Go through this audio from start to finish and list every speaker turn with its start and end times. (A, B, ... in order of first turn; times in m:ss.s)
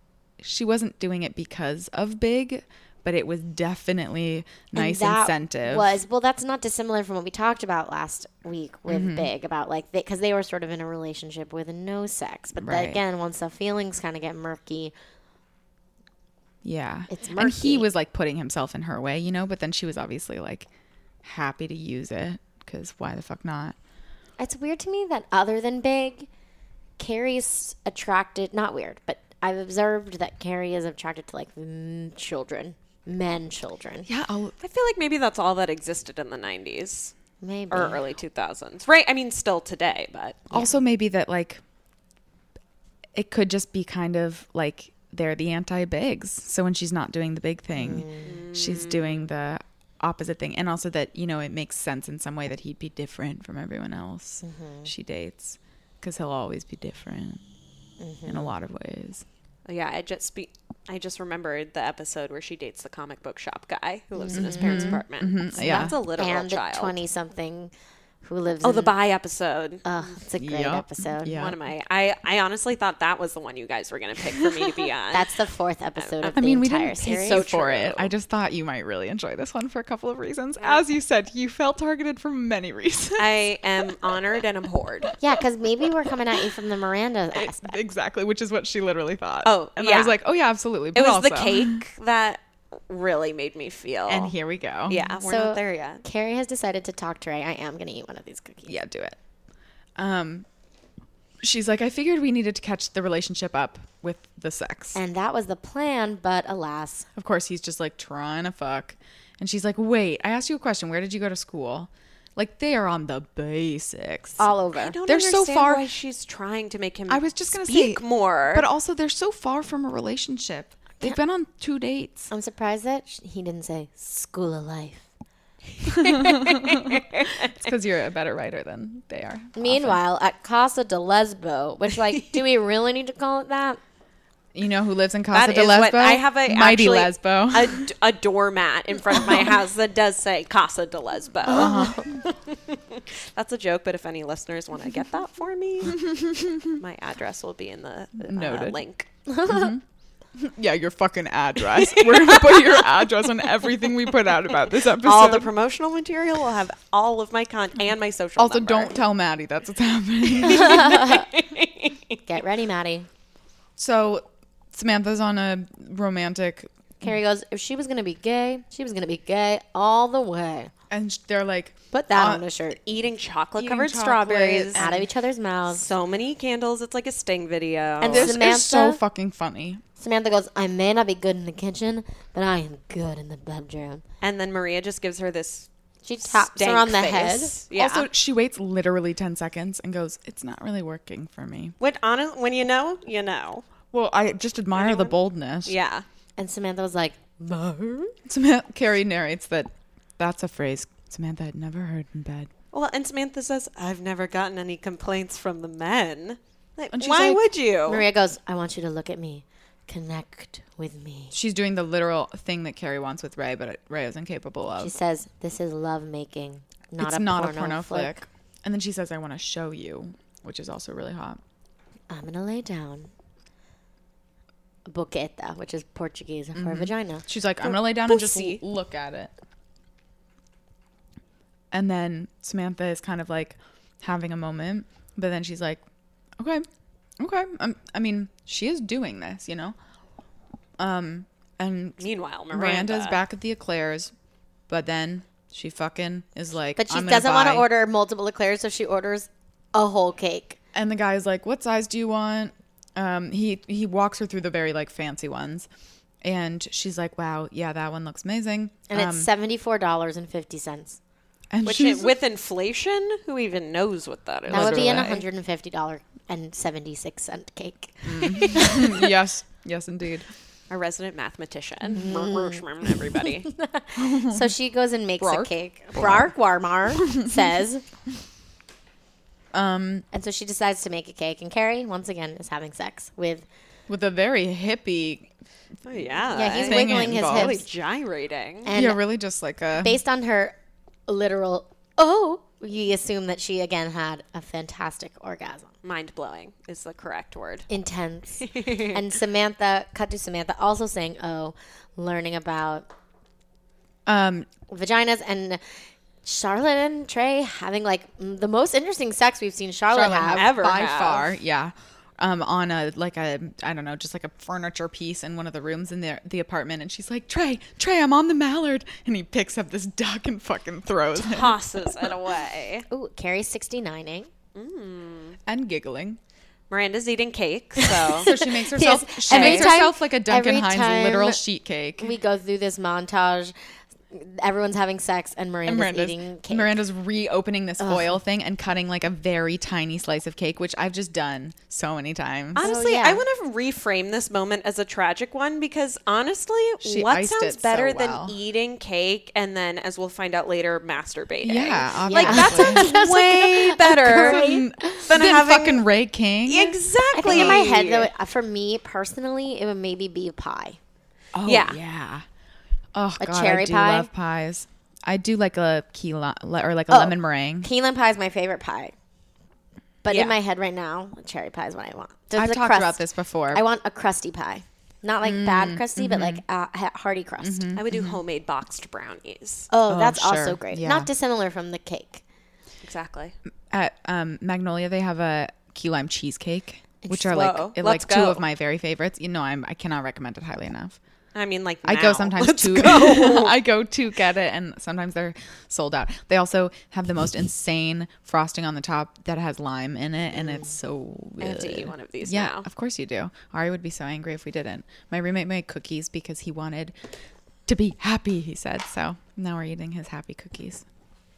0:00.4-0:06.0 A
0:04.7-0:14.9 B
0:08.9-0:09.3 A
0:12.6-0:13.0 A
0:16.6-0:20.7 A
0:17.1-0:17.9 B
0:21.2-0:23.8 A
0:24.4-0:26.3 B
0:27.0-0:34.1 B
0:34.0-0:34.5 A
0:34.6-0:37.1 C
0:37.4-0:38.0 B
0:37.7-0:40.5 C
0:40.5-0:41.6 A
0:43.1-0:57.4 A
0:47.7-0:48.3 B
0:48.2-0:49.3 C
0:54.4-0:54.9 B
0:58.0-0:58.5 B
0:58.2-0:59.2 A
0:59.6-1:07.0 C
1:04.2-1:07.7 B
1:04.3-1:06.0 A
1:08.2-1:08.9 B
1:08.6-1:10.2 C
1:09.8-1:11.4 B
1:10.4-1:11.6 A
1:11.3-1:15.3 C
1:15.1-1:17.4 B
1:16.0-1:16.4 C
1:16.3-1:24.2 A
1:17.0-1:18.1 C
1:23.2-1:25.1 C
1:25.2-1:27.8 B
1:27.3-1:31.8 A
1:29.4-1:30.2 C
1:30.9-1:34.3 C
1:34.1-1:35.1 A
1:34.9-1:36.0 C
1:35.2-1:38.7 B
1:38.6-1:39.2 A
1:40.0-1:40.4 A
1:41.4-1:45.0 A
1:44.9-1:47.1 B
1:47.2-1:54.5 A
1:54.4-1:55.0 B
1:54.7-1:58.7 C
1:55.0-1:55.8 A
1:57.1-2:02.3 A
2:02.3-2:05.0 B
2:05.9-2:10.0 A
2:06.0-2:07.0 B
2:09.6-2:13.8 B
2:14.5-2:17.9 A
2:15.3-2:29.1 C
2:21.5-2:22.1 A
2:21.5-2:22.1 B
2:25.9-2:26.7 A
2:28.2-2:28.8 A
2:29.3-2:29.7 B
2:29.4-2:29.8 A
2:30.4-2:35.5 A
2:31.9-2:32.8 C
2:34.8-2:39.0 C
2:38.4-2:41.0 A
2:40.4-2:42.2 C
2:40.6-2:41.2 B
2:42.2-2:43.1 B
2:43.8-2:46.7 A
2:47.0-2:50.7 B
2:50.9-2:52.4 A
2:51.9-2:52.8 B
2:52.8-2:54.9 C
2:53.6-2:55.1 A
2:54.7-2:55.9 B
2:55.7-2:58.3 C
2:58.0-2:59.0 B
2:58.0-2:59.8 A
3:00.0-3:04.0 B
3:04.2-3:05.7 C
3:06.0-3:07.6 B
3:06.2-3:08.1 C
3:07.7-3:11.7 A
3:11.8-3:13.6 C
3:13.9-3:15.8 A
3:14.7-3:16.0 C
3:16.4-3:18.1 B
3:18.3-3:22.5 A
3:22.7-3:28.0 C
3:26.9-3:27.4 A
3:27.9-3:31.3 B
3:31.3-3:34.9 A
3:34.8-3:38.2 B
3:37.0-3:41.4 A
3:42.1-3:43.1 B
3:44.8-3:47.2 B
3:46.5-3:49.3 A
3:47.6-3:48.6 C
3:51.7-3:55.8 A
3:56.4-3:56.7 A
3:57.2-3:59.8 A
4:00.8-4:04.1 A
4:02.0-4:03.2 C
4:04.7-4:07.7 A
4:06.8-4:10.6 B
4:10.7-4:15.7 A
4:16.2-4:19.3 A
4:18.9-4:21.0 B
4:21.5-4:22.1 A
4:21.6-4:25.2 C
4:24.5-4:25.2 A
4:24.5-4:29.0 B
4:28.0-4:30.3 A
4:30.7-4:33.5 C
4:31.9-4:32.9 B
4:33.4-4:37.8 B
4:34.0-4:34.5 A
4:35.2-4:36.3 A
4:39.5-4:40.0 A
4:40.1-4:43.4 B
4:43.9-4:45.3 A
4:45.8-4:48.7 C
4:45.9-4:47.6 A
4:46.3-4:47.6 B
4:48.6-4:49.0 B
4:48.7-4:50.0 A
4:49.8-4:50.5 B
4:51.1-4:55.7 B
4:55.8-4:57.7 C
4:57.7-5:02.9 B
4:58.4-4:58.9 C
5:04.0-5:04.5 A
5:04.7-5:05.6 B
5:06.2-5:10.5 B
5:09.9-5:22.1 A
5:10.3-5:11.3 C
5:21.2-5:22.8 C
5:22.9-5:24.3 B
5:24.5-5:25.4 C
5:25.4-5:26.2 A
5:26.7-5:28.3 C
5:27.8-5:31.4 B
5:28.2-5:32.1 A
5:29.3-5:29.7 C
5:32.0-5:33.5 B
5:34.1-5:36.8 B
5:35.6-5:42.7 A
5:37.8-5:38.2 B
5:42.5-5:54.5 C
5:42.6-5:43.2 B
5:46.8-5:48.3 A
5:51.4-5:53.0 A
5:52.1-5:55.0 B
5:53.8-5:57.6 A
5:55.0-5:55.9 C
5:56.4-5:58.1 C
5:57.1-6:00.8 B
6:01.3-6:02.2 A
6:01.4-6:01.8 C
6:02.9-6:07.7 A
6:03.2-6:04.1 B
6:06.9-6:08.9 B
6:10.0-6:17.7 B
6:10.1-6:10.3 C
6:12.3-6:13.6 A
6:15.2-6:16.4 A
6:17.4-6:18.2 A
6:17.7-6:19.7 C
6:19.7-6:22.2 B
6:19.9-6:21.1 A
6:22.8-6:23.3 C
6:23.7-6:31.0 A
6:27.3-6:28.4 C
6:31.3-6:33.6 C
6:31.8-6:46.9 A
6:40.4-6:40.7 B
6:41.4-6:42.7 C
6:47.7-6:50.8 A